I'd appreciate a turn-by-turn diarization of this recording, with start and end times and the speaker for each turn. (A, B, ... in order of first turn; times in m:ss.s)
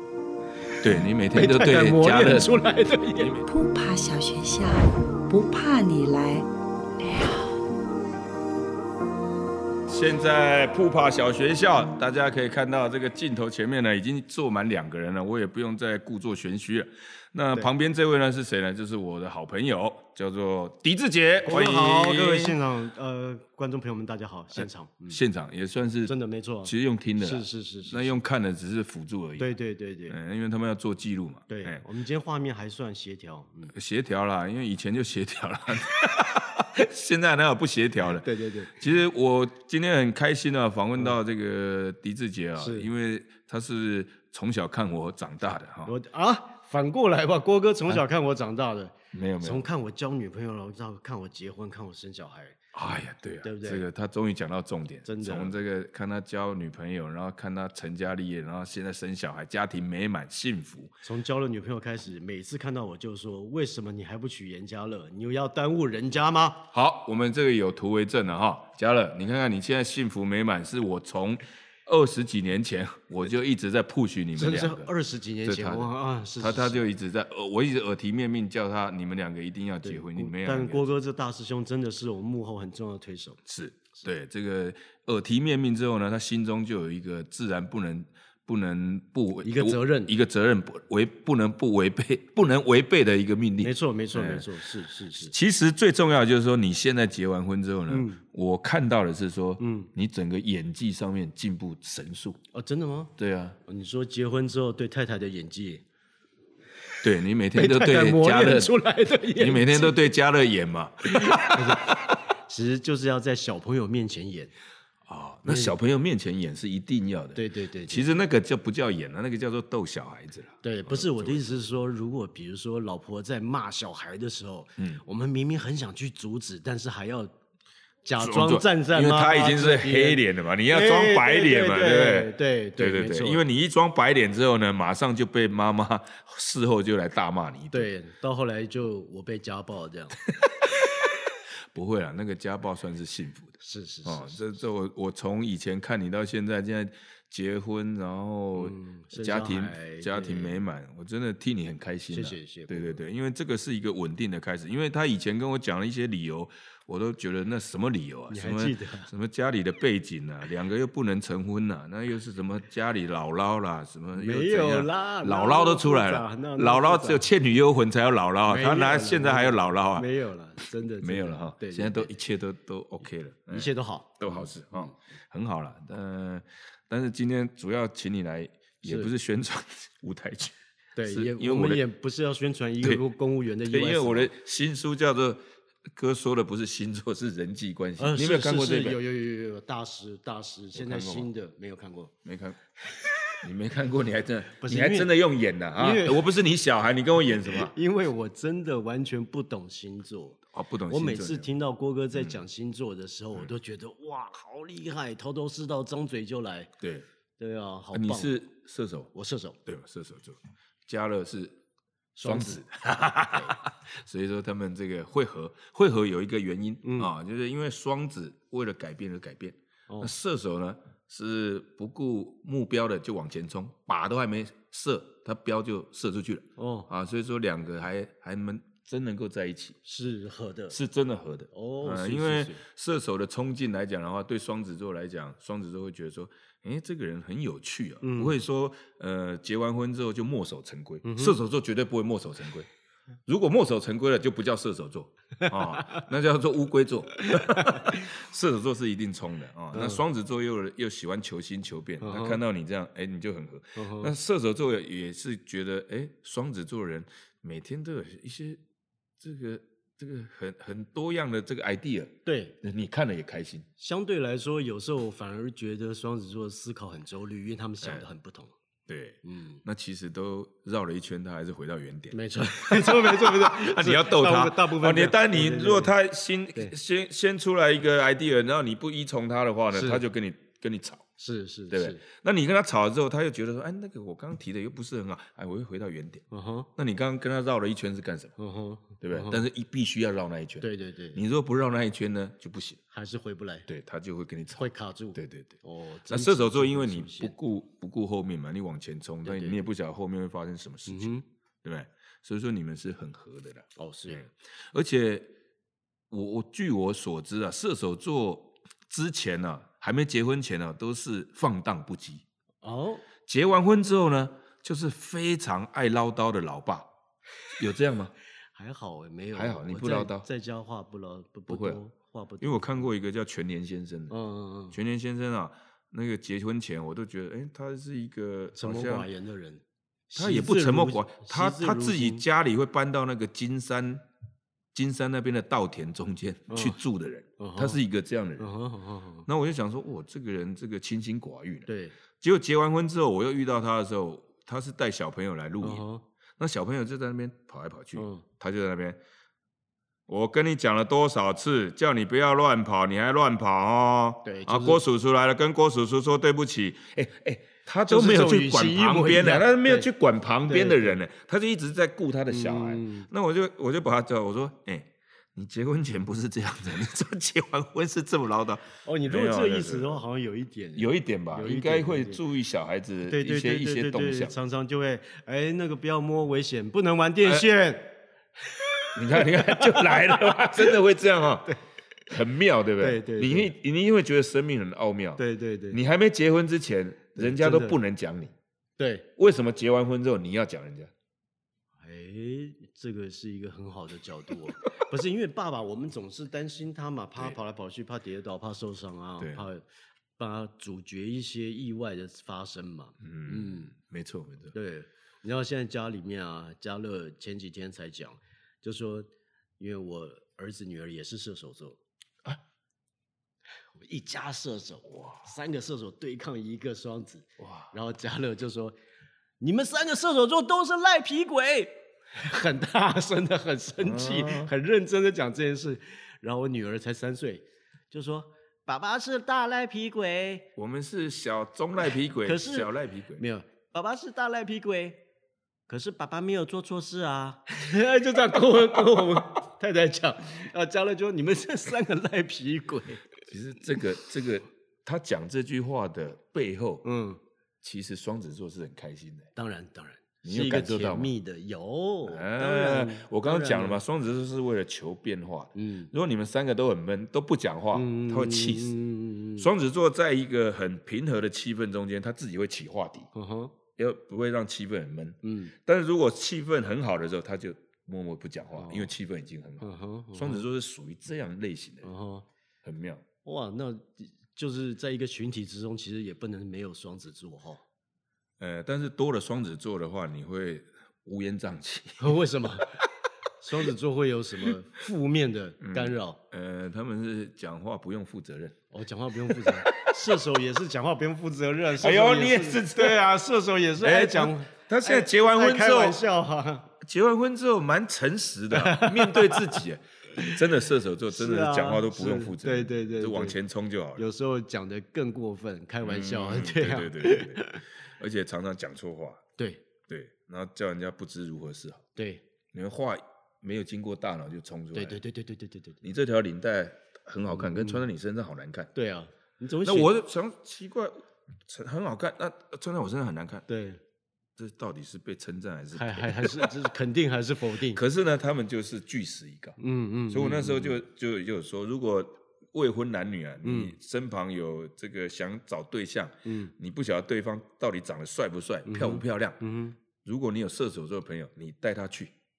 0:00.8-0:03.5 A
0:01.3-0:03.4 B
0:03.5-0:06.5 C
0:07.0-0:07.6 C
0:09.9-0:22.6 A
0:21.4-0:25.2 B
0:24.5-0:29.5 A
0:26.0-0:28.2 B
0:29.4-0:30.2 B
0:30.1-0:31.8 A
0:31.5-0:33.7 B
0:33.7-0:45.9 A
0:38.0-0:38.7 B
0:42.6-0:42.9 B
0:45.8-0:52.6 B
0:49.1-0:49.6 A
0:52.7-1:01.0 A
0:53.4-0:53.8 B
0:55.0-0:55.6 B
1:01.0-1:06.7 B
1:06.7-1:14.9 A
1:14.3-1:16.8 B
1:15.4-1:20.9 A
1:19.8-1:23.4 B
1:23.4-1:34.5 A
1:29.4-1:30.1 B
1:33.6-1:35.3 B
1:35.2-1:42.4 A
1:37.9-1:38.2 B
1:39.6-1:39.9 B
1:42.5-1:43.1 B
1:43.2-1:43.6 A
1:43.6-1:45.8 B
1:47.0-1:48.7 A
1:47.5-1:50.0 B
1:49.3-1:52.1 A
1:51.2-1:54.5 B
1:55.1-2:01.5 A
1:55.4-1:55.8 B
1:57.3-1:58.0 B
2:00.6-2:07.3 B
2:08.0-2:13.4 B
2:08.2-2:17.9 A
2:17.7-2:20.2 B
2:21.7-2:50.1 A
2:23.6-2:24.4 B
2:28.5-2:30.6 B
2:32.1-2:33.0 B
2:38.3-2:39.1 B
2:44.1-2:47.2 B
2:48.4-2:52.2 B
2:51.0-3:01.8 A
2:53.5-2:54.9 B
2:58.8-2:59.1 B
3:01.0-3:04.3 B
3:03.6-3:05.4 A
3:06.0-3:09.0 A
3:08.0-3:12.1 B
3:10.7-3:11.3 A
3:12.2-3:12.6 A
3:13.4-3:17.7 A
3:14.6-3:15.2 B
3:15.8-3:16.3 B
3:17.2-3:26.7 B
3:20.5-3:21.5 A
3:22.1-3:22.4 A
3:26.8-3:27.0 A
3:27.4-3:28.4 B
3:27.9-3:29.1 A
3:29.1-3:29.6 B
3:29.6-3:31.6 A
3:32.1-3:32.6 B
3:32.2-3:49.8 A
3:33.2-3:33.6 B
3:36.8-3:37.1 B
3:46.6-3:46.9 B
3:49.8-3:50.8 B
3:50.7-4:02.7 A
3:51.5-3:52.6 B
3:58.0-3:58.4 B
4:01.0-4:01.4 B
4:03.3-4:18.6 A
4:07.5-4:07.8 B
4:09.7-4:10.0 B
4:12.0-4:12.4 B
4:13.8-4:14.1 B
4:19.2-4:23.6 A
4:22.2-4:22.6 B
4:23.8-4:28.5 B
4:27.8-4:28.1 A
4:28.9-4:41.0 A
4:29.2-4:29.6 B
4:32.1-4:35.9 B
4:39.7-4:40.0 B
4:41.2-4:42.0 B
4:41.7-4:46.2 A
4:46.3-4:46.7 B
4:46.8-4:48.3 A
4:48.4-4:49.4 B
4:49.0-4:52.8 A
4:50.6-4:51.2 B
4:52.9-4:53.7 B
4:53.7-4:55.5 A
4:54.6-4:57.3 B
4:56.1-5:05.3 A
4:59.2-4:59.7 B
5:00.9-5:01.2 B
5:03.8-5:04.2 B
5:06.1-5:12.2 A
5:12.6-5:13.0 B
5:13.3-5:16.9 A
5:17.6-5:18.1 A
5:18.5-5:22.8 B
5:19.3-5:20.3 A
5:21.5-5:21.8 A
5:22.4-5:24.1 A
5:24.1-5:24.8 B
5:24.7-5:29.1 A
5:28.6-5:32.2 B
5:30.1-5:34.0 A
5:34.7-5:38.5 A
5:36.5-5:36.8 B
5:37.4-5:37.8 B
5:38.4-5:39.3 B
5:39.3-5:45.8 A
5:41.6-5:42.0 B
5:45.6-5:46.0 B
5:46.4-5:49.0 A
5:48.0-5:48.2 B
5:50.1-6:10.0 A
5:54.2-5:54.8 B
5:57.9-5:59.9 B
6:00.4-6:01.0 B
6:02.3-6:03.1 B
6:08.8-6:12.2 B
6:10.8-6:14.3 A
6:13.0-6:18.0 B
6:18.6-6:20.8 B
6:19.0-6:21.6 A
6:22.1-6:28.3 A
6:22.8-6:23.5 B
6:25.2-6:25.8 B
6:27.2-6:27.8 B
6:28.8-6:29.1 B
6:29.2-6:30.9 A
6:31.8-6:39.6 B
6:39.2-6:39.5 A
6:40.2-6:43.7 B
6:43.0-6:44.5 A
6:44.5-6:51.8 B
6:53.8-6:58.8 B
6:57.4-6:57.7 A
6:59.4-7:10.5 B
7:03.8-7:04.5 A
7:10.6-7:13.2 A
7:12.2-7:15.0 B
7:15.7-7:23.2 B
7:23.3-7:26.8 A
7:26.8-7:27.2 B
7:27.6-7:29.3 A
7:29.3-7:33.8 B
7:30.2-7:31.1 A
7:32.0-7:38.8 A
7:35.5-7:35.9 B
7:37.7-7:39.5 B
7:39.4-7:43.1 A
7:43.1-7:43.6 B
7:43.8-7:51.9 A
7:45.2-7:45.5 B
7:48.5-7:48.9 B
7:49.6-7:50.4 B
7:51.8-7:52.3 B
7:52.6-7:53.0 A
7:53.2-7:57.6 B
7:58.4-8:02.2 A
8:02.0-8:02.8 B
8:03.4-8:06.2 B
8:05.6-8:08.5 A
8:08.7-8:16.7 B
8:09.3-8:09.9 A
8:11.8-8:13.0 A
8:13.8-8:16.0 A
8:16.8-8:24.0 A
8:18.5-8:19.6 B
8:21.1-8:23.4 B
8:24.0-8:27.6 B
8:25.8-8:29.2 A
8:29.4-8:29.6 B
8:29.9-8:31.8 A
8:32.0-8:32.2 B
8:32.5-8:35.0 A
8:34.7-8:35.8 B
8:35.8-8:38.7 A
8:37.3-8:37.9 B
8:38.7-8:39.9 B
8:39.6-8:43.4 A
8:43.5-8:43.8 B
8:44.4-8:46.7 A
8:45.7-8:47.8 B
8:47.7-8:49.6 A
8:49.6-8:50.8 B
8:50.1-8:59.4 A
8:53.4-8:53.7 B
8:56.2-8:56.5 B
8:58.6-8:59.8 B
9:00.0-9:02.1 A